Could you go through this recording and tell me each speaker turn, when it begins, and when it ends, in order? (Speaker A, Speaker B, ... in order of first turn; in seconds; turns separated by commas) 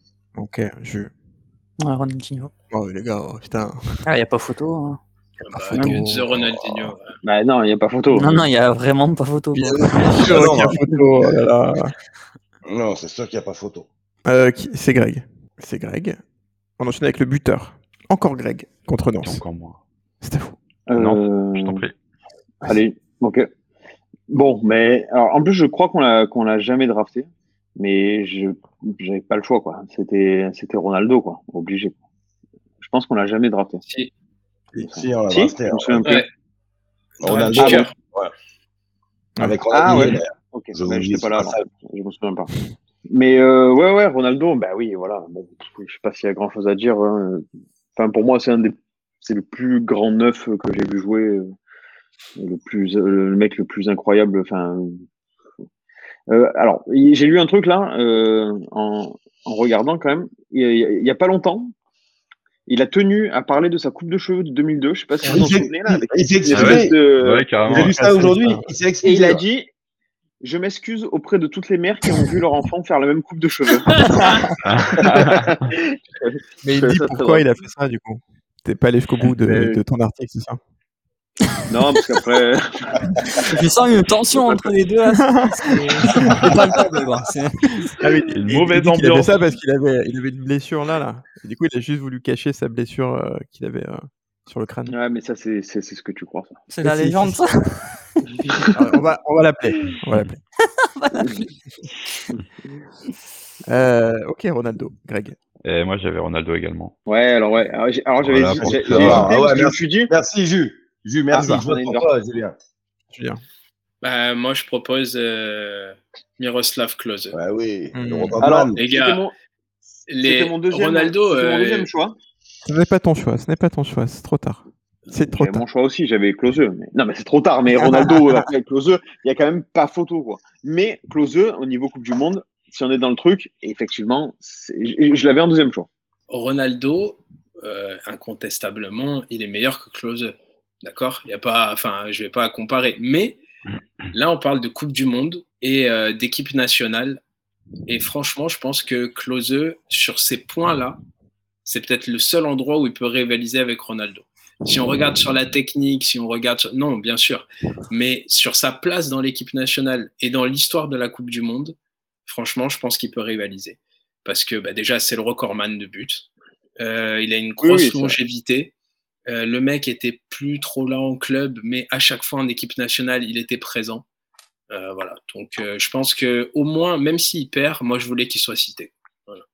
Speaker A: 0.4-1.1, Speaker B: 1.8-2.5, Speaker A: 2.7-3.8, Speaker B: 4.1-5.0, Speaker C: 5.4-7.2, Speaker A: 5.5-7.0, Speaker D: 7.2-8.4, Speaker B: 8.1-10.8, Speaker E: 9.7-10.8, Speaker A: 9.9-11.9, Speaker E: 12.7-13.9, Speaker A: 14.3-16.2, Speaker A: 16.8-19.4, Speaker F: 19.2-19.8, Speaker A: 20.2-20.6, Speaker D: 20.9-21.8, Speaker F: 20.9-21.9, Speaker D: 22.6-23.5, Speaker D: 24.3-31.9, Speaker D: 32.8-33.8, Speaker D: 34.8-36.2, Speaker E: 34.9-36.1, Speaker C: 36.0-36.3, Speaker E: 37.2-38.3, Speaker C: 37.2-37.9, Speaker D: 37.6-37.9, Speaker A: 39.4-40.1, Speaker E: 39.4-41.7, Speaker D: 39.7-42.5, Speaker D: 43.1-51.5, Speaker D: 52.4-55.0, Speaker D: 56.3-61.7, Speaker D: 62.7-67.5, Speaker E: 65.3-67.0, Speaker F: 66.5-68.0, Speaker E: 67.7-69.4, Speaker A: 67.7-68.7, Speaker D: 69.0-69.7, Speaker D: 70.4-74.1, Speaker C: 74.0-74.4, Speaker F: 74.6-75.7, Speaker D: 75.0-77.5, Speaker A: 76.6-80.6, Speaker D: 79.4-79.8, Speaker D: 81.7-83.0, Speaker B: 83.3-88.0, Speaker A: 85.2-86.4, Speaker A: 88.0-94.9, Speaker F: 88.3-89.4, Speaker D: 94.9-96.6, Speaker B: 96.7-98.7, Speaker A: 96.8-97.4, Speaker A: 98.7-100.4, Speaker B: 100.8-101.5, Speaker A: 103.7-105.4, Speaker F: 105.6-106.9, Speaker D: 107.1-110.1, Speaker F: 108.2-109.3, Speaker E: 108.6-112.5, Speaker D: 111.3-112.1, Speaker A: 113.1-113.4, Speaker C: 114.0-117.4, Speaker E: 117.3-118.8, Speaker A: 117.9-118.4, Speaker D: 118.4-119.3, Speaker C: 118.8-119.2, Speaker C: 120.1-121.9, Speaker D: 120.2-122.2, Speaker A: 122.7-125.6, Speaker D: 125.1-135.9, Speaker A: 127.8-128.4, Speaker C: 136.3-143.4, Speaker C: 144.1-147.2, Speaker C: 147.9-151.0, Speaker C: 151.7-161.8, Speaker C: 162.3-166.3, Speaker C: 166.8-168.7, Speaker D: 167.6-168.2, Speaker C: 169.3-174.0, Speaker C: 174.7-179.4